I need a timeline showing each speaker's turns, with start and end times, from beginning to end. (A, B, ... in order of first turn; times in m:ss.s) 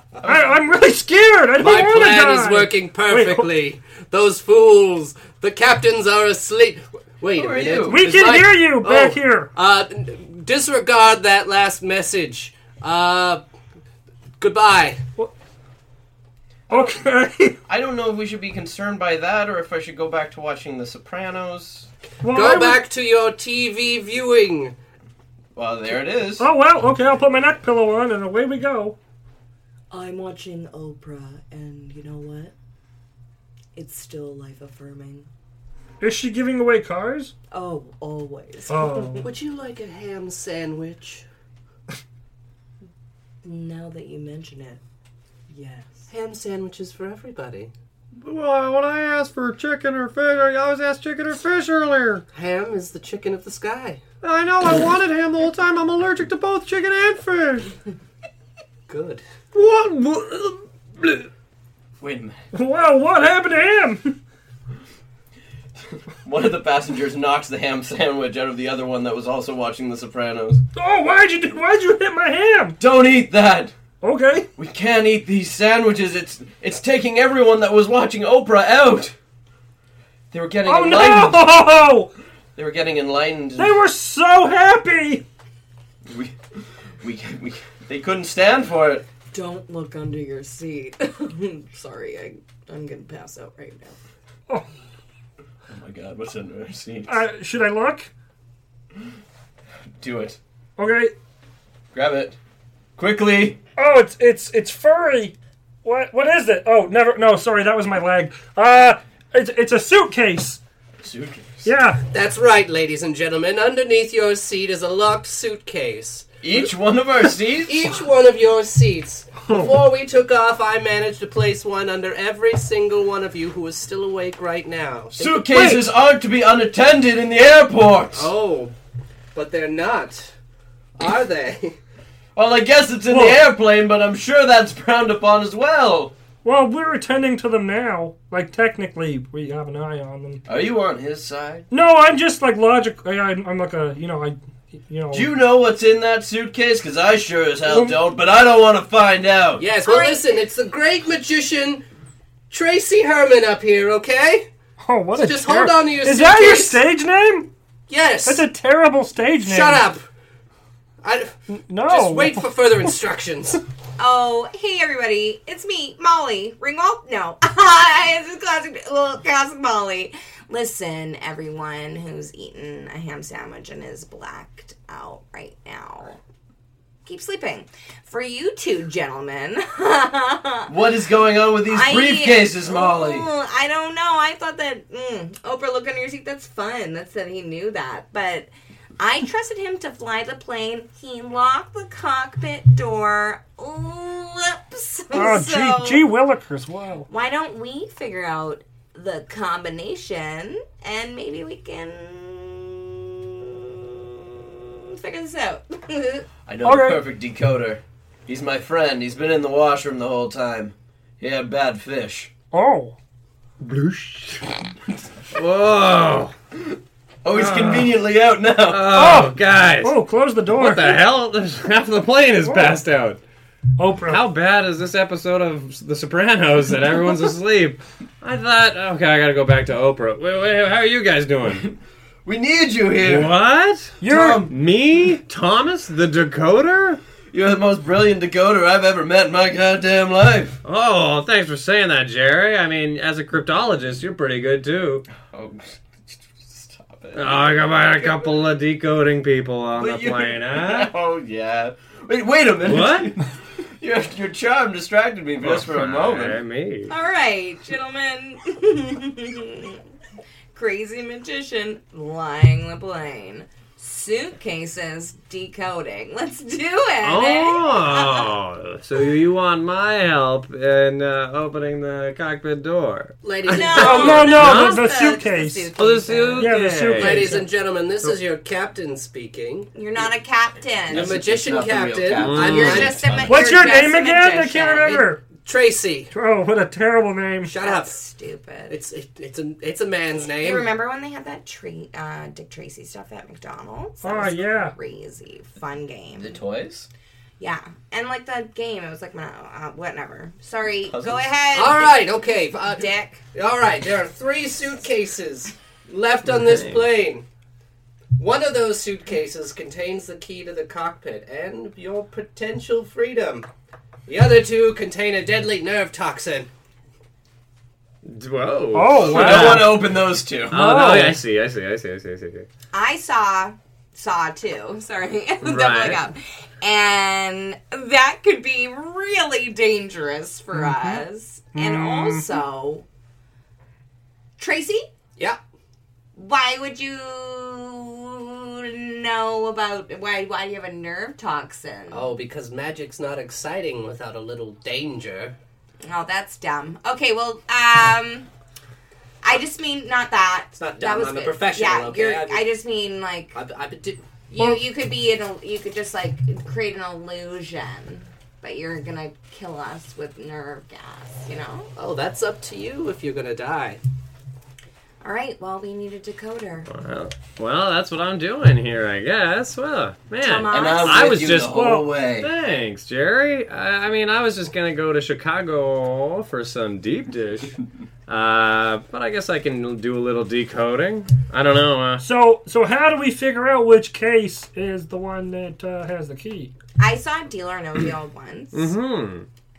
0:00.2-0:03.5 A
0:01.6-0:13.4 B
0:07.3-0:08.1 C
0:07.8-0:09.5 A
0:14.4-0:15.0 B
0:16.7-0:17.6 A
0:17.7-0:21.9 C
0:22.2-0:22.8 A
0:22.3-0:24.8 B
0:25.6-0:26.5 C
0:26.4-0:29.0 A
0:29.9-0:32.5 D
0:33.8-0:35.3 D
0:36.0-0:37.3 A
0:37.5-0:39.2 D
0:38.7-0:39.3 A
0:39.2-0:41.3 B
0:43.4-0:44.8 D
0:45.5-0:46.0 D
0:46.1-0:47.7 B
0:48.2-0:52.2 E
0:52.3-0:54.0 B
0:54.2-0:57.7 E
0:58.9-0:59.2 B
0:59.5-1:01.3 E
1:02.0-1:02.4 C
1:02.5-1:04.2 A
1:06.2-1:10.6 C
1:10.8-1:12.8 A
1:12.8-1:13.8 C
1:14.0-1:14.5 A
1:14.6-1:19.2 C
1:20.3-1:21.5 C
1:20.6-1:22.1 A
1:22.6-1:23.8 C
1:23.6-1:25.2 A
1:26.1-1:26.4 C
1:27.0-1:29.0 C
1:29.3-1:34.0 D
1:35.7-1:37.2 C
1:37.1-1:38.1 A
1:40.0-1:40.4 C
1:40.8-1:41.1 A
1:41.9-1:42.4 C
1:43.0-1:43.6 C
1:43.8-1:50.6 A
1:51.0-1:51.7 C
1:51.6-1:52.0 A
1:52.1-1:56.3 B
1:56.4-1:58.0 C
1:57.7-2:05.3 B
1:59.5-1:59.8 A
2:05.2-2:08.3 C
2:08.1-2:08.7 B
2:09.4-2:10.3 B
2:11.0-2:11.8 B
2:12.4-2:16.1 C
2:13.1-2:13.4 A
2:16.4-2:20.4 A
2:20.5-2:21.7 C
2:21.7-2:25.3 A
2:25.1-2:29.6 C
2:27.7-2:28.0 A
2:29.6-2:31.8 B
2:29.8-2:30.3 D
2:32.5-2:34.5 B
2:34.8-2:37.5 A
2:35.2-2:36.8 B
2:37.9-2:38.5 B
2:38.3-2:39.8 A
2:39.4-2:40.0 B
2:41.0-2:43.6 B
2:41.5-2:42.4 A
2:44.0-2:56.2 D
2:57.1-3:00.8 D
3:00.7-3:03.3 C
3:01.7-3:16.1 D
3:15.1-3:17.1 A
3:17.1-3:26.3 D
3:26.5-3:32.3 C
3:26.6-3:27.0 A
3:32.5-3:33.0 A
3:33.6-3:34.5 E
3:35.3-3:36.3 E
3:37.2-3:39.0 C
3:37.3-3:37.9 E
3:38.7-3:40.0 E
3:38.9-3:41.0 A
3:40.5-3:43.2 E
3:42.4-3:42.8 A
3:43.8-3:44.2 A
3:44.1-3:51.7 E
3:51.6-3:53.3 C
3:53.0-3:57.0 E
3:54.0-3:54.5 A
3:54.0-3:54.5 C
3:57.3-4:00.6 C
4:00.6-4:05.1 E
4:05.2-4:08.3 C
4:07.2-4:10.9 E
4:09.8-4:16.4 C
4:12.6-4:13.1 E
4:15.4-4:16.9 E
4:16.9-4:19.8 D
4:20.5-4:28.3 D
4:27.0-4:34.9 E
4:33.2-4:34.3 B
4:33.5-4:36.6 D
4:33.6-4:35.8 A
4:35.8-4:37.4 E
4:36.4-4:37.5 A
4:37.0-4:39.7 B
4:39.8-4:41.2 D
4:40.9-4:43.5 C
4:40.9-4:43.0 B
4:42.2-4:43.0 E
4:42.4-4:45.1 D
4:43.3-4:45.2 A
4:45.3-4:46.1 B
4:46.1-4:47.5 A
4:47.4-4:48.0 B
4:47.6-4:48.8 D
4:48.7-4:50.7 B
4:50.4-4:56.4 D
4:54.0-4:54.8 A
4:56.2-4:56.9 C
4:57.4-5:03.2 D
5:00.9-5:01.2 C
5:01.5-5:07.2 B
5:06.3-5:06.9 E
5:08.2-5:13.5 B
5:14.1-5:16.5 B
5:18.0-5:19.8 E
5:18.7-5:19.9 A
5:19.0-5:20.6 C
5:20.5-5:21.2 A
5:20.5-5:22.5 E
5:22.7-5:32.9 D
5:25.4-5:26.0 E
5:30.6-5:31.0 A
5:31.5-5:32.4 A
5:34.4-5:34.9 D
5:36.2-5:42.1 D
5:41.9-5:45.4 B
5:45.9-5:48.3 D
5:49.2-5:53.4 D
5:50.6-5:52.5 B
5:53.3-5:54.0 B
5:54.3-6:01.7 D
6:01.8-6:03.8 B
6:05.0-6:06.7 D
6:06.7-6:22.0 E
6:10.2-6:11.2 D
6:10.5-6:12.3 C
6:22.0-6:26.5 A
6:26.8-6:28.8 D
6:28.5-6:29.3 E